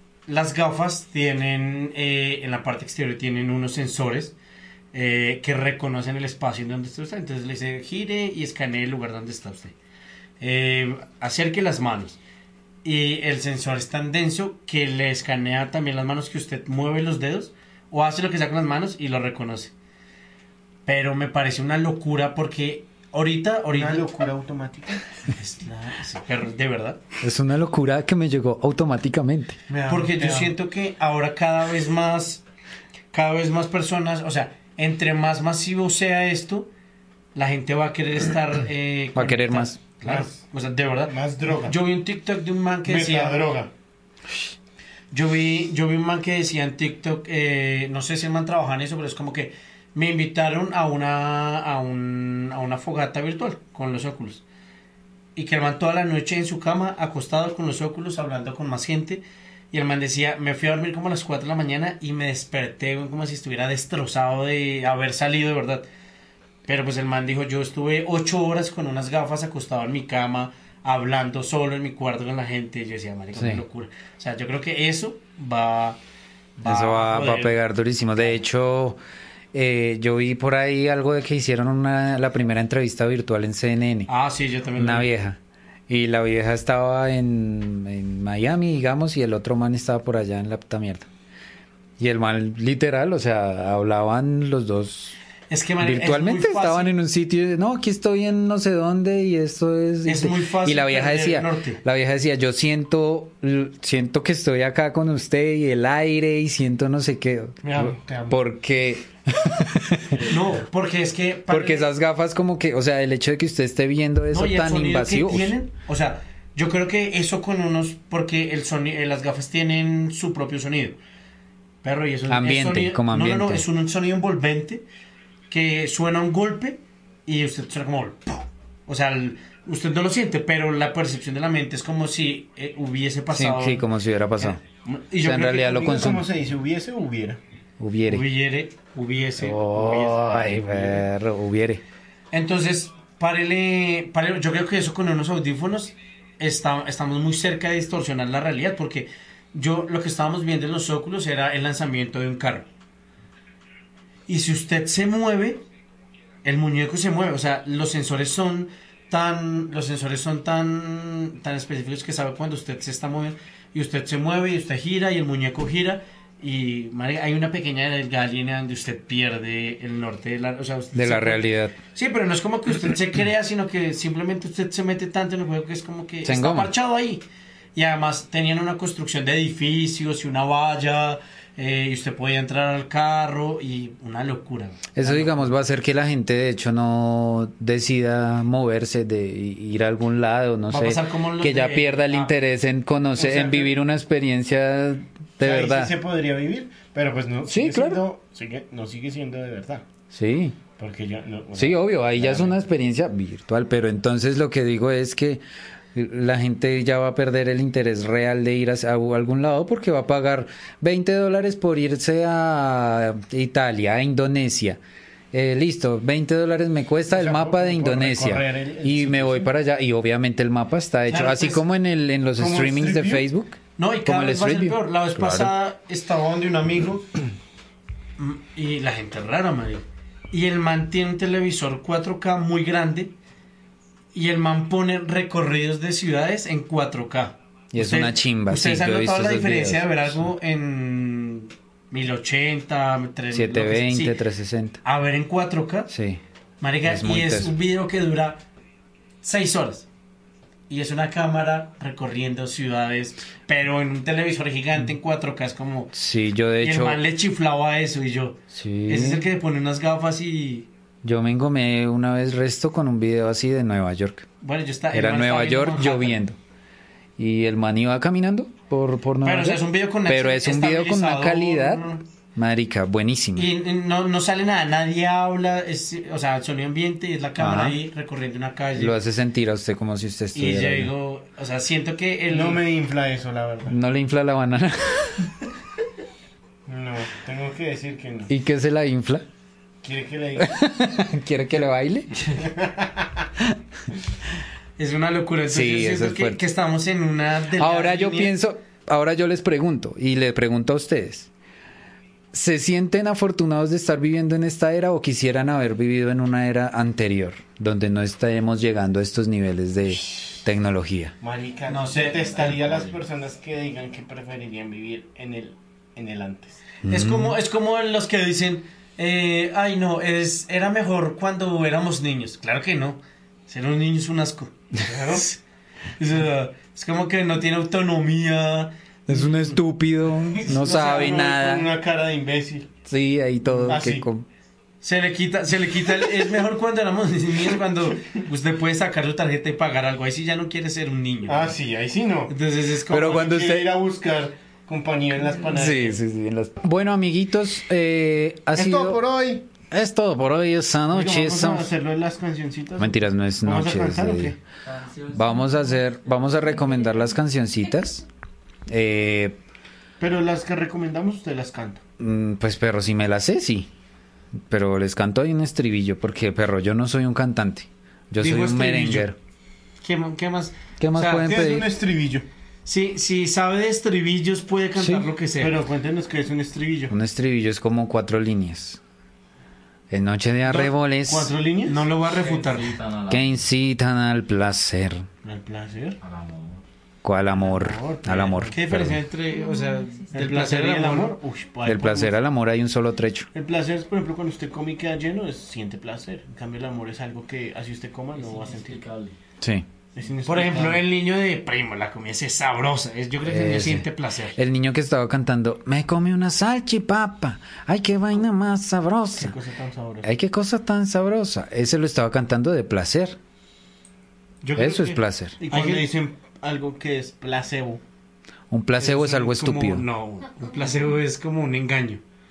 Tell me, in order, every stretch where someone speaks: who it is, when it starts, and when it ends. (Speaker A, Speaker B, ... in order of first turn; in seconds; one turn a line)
Speaker A: 0.3-4.3
Speaker A: 4.9-9.7
Speaker A: 10.4-12.2
Speaker A: 12.8-19.7
Speaker A: 20.9-24.1
Speaker B: 23.7-25.1
Speaker A: 25.4-27.0
Speaker C: 27.2-29.6
Speaker B: 29.7-30.5
Speaker A: 29.9-32.4
Speaker A: 33.1-36.7
Speaker A: 37.4-43.5
Speaker C: 39.1-39.8
Speaker B: 40.0-40.4
Speaker B: 41.1-41.8
Speaker B: 42.9-43.7
Speaker A: 45.1-54.4
Speaker A: 55.4-65.8
Speaker A: 66.7-76.0
Speaker C: 73.4-73.6
Speaker A: 76.6-77.6
Speaker C: 76.7-79.0
Speaker C: 79.5-84.1
Speaker A: 84.1-85.1
Speaker C: 84.8-91.1
Speaker C: 92.0-95.2
Speaker A: 95.5-96.9
Speaker C: 95.8-110.2
Speaker A: 100.1-101.8
Speaker B: 107.6-108.4
Speaker D: 110.1-110.4
Speaker A: 110.3-111.9
Speaker C: 111.5-115.5
Speaker A: 114.3-121.0
Speaker A: 121.8-124.8
Speaker C: 122.3-123.6
Speaker A: 125.5-133.9
Speaker C: 133.3-134.6
Speaker A: 134.4-136.2
Speaker C: 135.2-136.3
Speaker B: 135.8-137.4
Speaker C: 137.8-138.3
Speaker A: 138.1-141.0
Speaker C: 139.4-141.8
Speaker A: 142.3-152.7
Speaker A: 154.3-155.6
Speaker A: 156.4-177.2
Speaker C: 170.9-171.8
Speaker C: 176.2-176.7
Speaker A: 177.8-185.5
Speaker C: 185.0-195.9
Speaker A: 190.7-192.3
Speaker B: 193.2-193.7
Speaker B: 195.4-199.8
Speaker C: 197.5-198.0
Speaker C: 200.1-200.6
Speaker B: 200.8-202.6
Speaker C: 201.6-205.4
Speaker C: 205.9-214.8
Speaker C: 215.3-225.5
Speaker B: 217.1-219.5
Speaker A: 221.1-221.6
Speaker B: 222.4-223.2
Speaker A: 223.8-227.2
Speaker A: 228.2-233.1
Speaker A: 234.1-244.2
Speaker C: 237.7-240.2
Speaker C: 243.3-244.8
Speaker A: 244.8-245.9
Speaker C: 245.9-246.2
Speaker A: 246.6-248.4
Speaker C: 246.8-247.5
Speaker A: 249.2-249.9
Speaker A: 250.7-255.9
Speaker C: 255.9-257.0
Speaker A: 256.6-260.7
Speaker C: 258.5-259.2
Speaker C: 261.0-264.3
Speaker A: 264.4-266.2
Speaker C: 264.9-266.4
Speaker C: 267.2-271.9
Speaker A: 269.2-272.0
Speaker C: 272.4-273.5
Speaker A: 273.4-279.0
Speaker C: 277.4-277.8
Speaker C: 278.8-280.9
Speaker A: 280.3-282.6
Speaker B: 282.3-283.8
Speaker C: 283.7-285.3
Speaker B: 286.7-288.3
Speaker C: 288.3-289.2
Speaker B: 289.8-290.6
Speaker C: 290.4-292.4
Speaker B: 292.4-293.2
Speaker A: 294.8-298.3
Speaker C: 295.5-296.4
Speaker C: 297.6-301.3
Speaker C: 302.3-311.2
Speaker B: 311.2-316.6
Speaker A: 311.7-312.6
Speaker D: 312.0-313.0
Speaker C: 316.8-317.4
Speaker A: 316.9-325.4
Speaker B: 324.8-325.3
Speaker A: 326.0-329.6
Speaker C: 329.1-331.7
Speaker A: 330.3-331.2
Speaker B: 330.5-332.7
Speaker C: 332.9-334.3
Speaker B: 333.7-334.1
Speaker A: 334.8-341.6
Speaker B: 341.3-342.4
Speaker A: 342.3-343.4
Speaker C: 342.9-343.7
Speaker B: 342.9-346.0
Speaker C: 345.4-349.0
Speaker B: 348.6-349.5
Speaker C: 349.7-351.7
Speaker B: 350.9-354.4
Speaker C: 352.8-354.4
Speaker D: 354.6-355.9
Speaker C: 355.1-358.1
Speaker C: 358.7-359.4
Speaker B: 360.0-361.8
Speaker C: 362.0-363.7
Speaker C: 364.5-369.2
Speaker A: 368.2-369.1
Speaker A: 369.8-371.4
Speaker C: 370.8-371.7
Speaker B: 371.2-372.3
Speaker A: 372.7-375.6
Speaker C: 374.8-375.1
Speaker B: 375.4-376.9
Speaker C: 376.9-378.8
Speaker C: 379.9-381.3
Speaker B: 380.5-381.8
Speaker A: 381.7-382.8
Speaker D: 382.1-383.4
Speaker C: 383.1-385.1
Speaker B: 385.2-386.0
Speaker D: 386.0-386.6
Speaker C: 387.0-389.0
Speaker B: 387.3-388.6
Speaker A: 388.5-391.2
Speaker B: 390.1-392.2
Speaker C: 391.6-393.3
Speaker B: 393.3-398.8
Speaker D: 398.1-399.2
Speaker C: 399.4-399.7
Speaker B: 400.0-400.8
Speaker A: 400.2-404.4
Speaker C: 403.2-409.4
Speaker B: 409.2-410.1
Speaker C: 410.0-413.2
Speaker A: 414.4-415.9
Speaker C: 414.6-415.4
Speaker B: 415.4-417.8
Speaker C: 418.5-419.8
Speaker A: 418.8-422.0